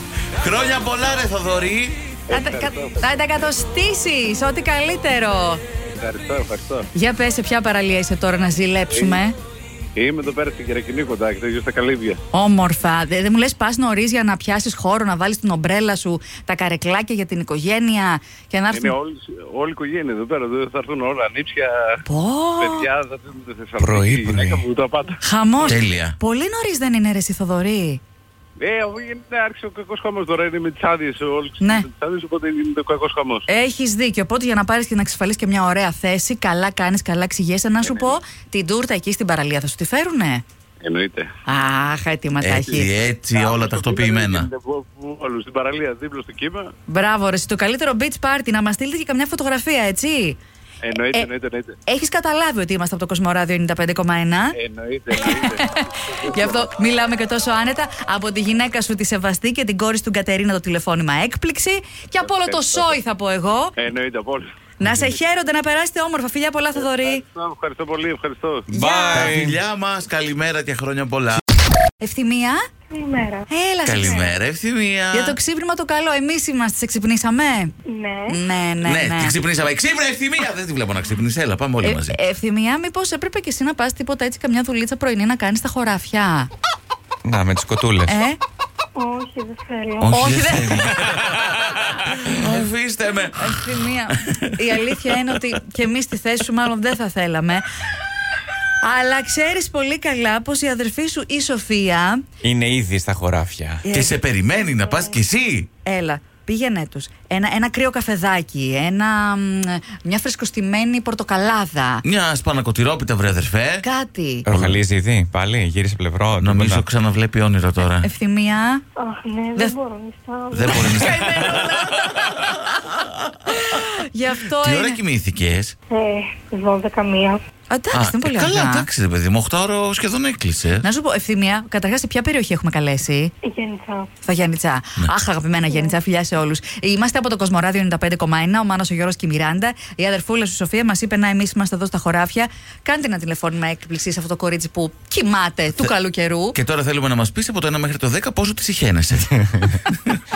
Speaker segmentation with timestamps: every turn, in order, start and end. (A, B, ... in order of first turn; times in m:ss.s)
0:00.4-0:02.0 A
0:02.3-0:03.3 B
0:02.3-0:05.6 C
0:05.9-0:06.9 B
0:06.9-0:09.3 C
0:08.9-0:09.2 B
0:10.0-0:12.2 B
0:12.3-0:18.9 C
0:18.7-0:22.0 B
0:22.1-0:22.9 C
0:22.6-0:25.2 B
0:23.8-0:24.6 D
0:25.2-0:28.0 C
0:25.6-0:26.2 A
0:28.6-0:33.5 B
0:31.6-0:31.8 C
0:33.5-0:40.4 C
0:37.8-0:38.1 B
0:40.8-0:41.3 B
0:41.4-0:42.9 C
0:42.4-0:44.5 A
0:43.3-0:46.7 B
0:46.9-0:50.4 C
0:50.8-0:51.8 B
0:51.8-0:54.5 C
0:54.6-0:56.7 B
0:55.1-1:03.7 C
1:02.2-1:03.0 B
1:03.8-1:04.4 B
1:04.8-1:07.2 C
1:06.8-1:08.7 B
1:08.7-1:09.6 D
1:08.7-1:09.3 C
1:09.1-1:11.4 A
1:12.0-1:12.6 C
1:12.9-1:13.5 E
1:13.5-1:14.3 C
1:13.8-1:15.4 A
1:15.1-1:17.7 C
1:17.8-1:18.4 E
1:18.3-1:19.4 C
1:18.8-1:22.2 A
1:21.8-1:26.5 C
1:27.2-1:28.2 D
1:28.0-1:28.4 C
1:28.9-1:30.2 E
1:30.0-1:31.4 A
1:30.1-1:30.9 C
1:32.1-1:35.4 A
1:33.3-1:37.6 C
1:38.8-1:42.2 C
1:42.4-1:43.8 D
1:43.8-1:44.2 C
1:43.9-1:45.7 A
1:44.8-1:45.2 E
1:45.8-1:52.0 C
1:52.0-1:53.8 A
1:53.8-1:54.5 C
1:54.4-1:56.8 D
1:54.5-1:54.8 A
1:56.4-1:58.1 A
1:58.0-1:58.8 C
1:59.0-2:00.9 E
2:00.5-2:03.8 A
2:00.7-2:02.3 C
2:03.5-2:05.0 C
2:04.5-2:05.7 A
2:05.9-2:07.4 E
2:07.7-2:08.9 C
2:07.9-2:10.9 A
2:10.8-2:13.3 C
2:13.4-2:14.1 E
2:14.2-2:26.6 C
2:15.7-2:16.0 E
2:26.5-2:30.2 A